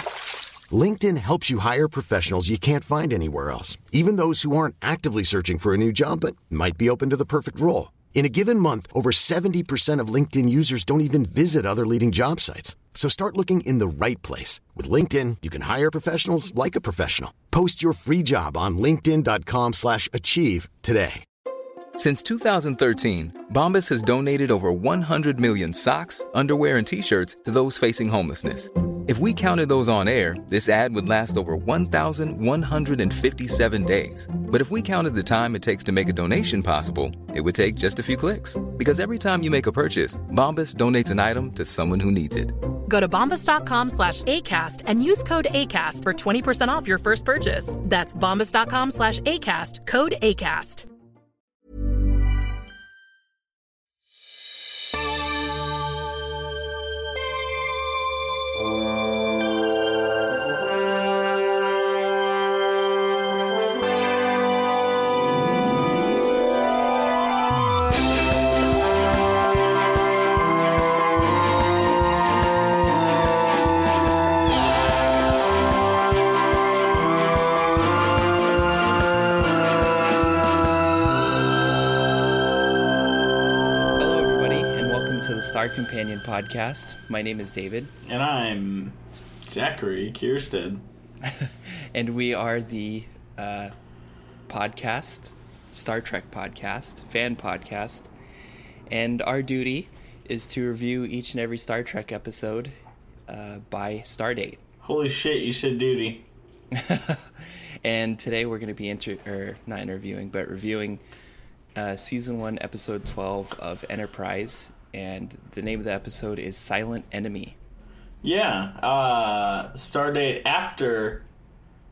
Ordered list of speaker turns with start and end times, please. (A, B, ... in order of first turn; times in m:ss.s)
0:00.7-0:21.2 A
0:22.0-0:42.5 B
0:42.9-0:50.8 C
1:24.0-1:27.9 D
1:28.0-1:30.8 E
1:31.2-1:33.7 D
1:34.5-1:38.1 D
1:38.9-1:42.7 D
1:43.3-1:44.6 D
1:44.8-1:46.2 E
1:46.7-1:51.0 D
1:51.8-1:57.6 D
1:58.2-2:01.2 E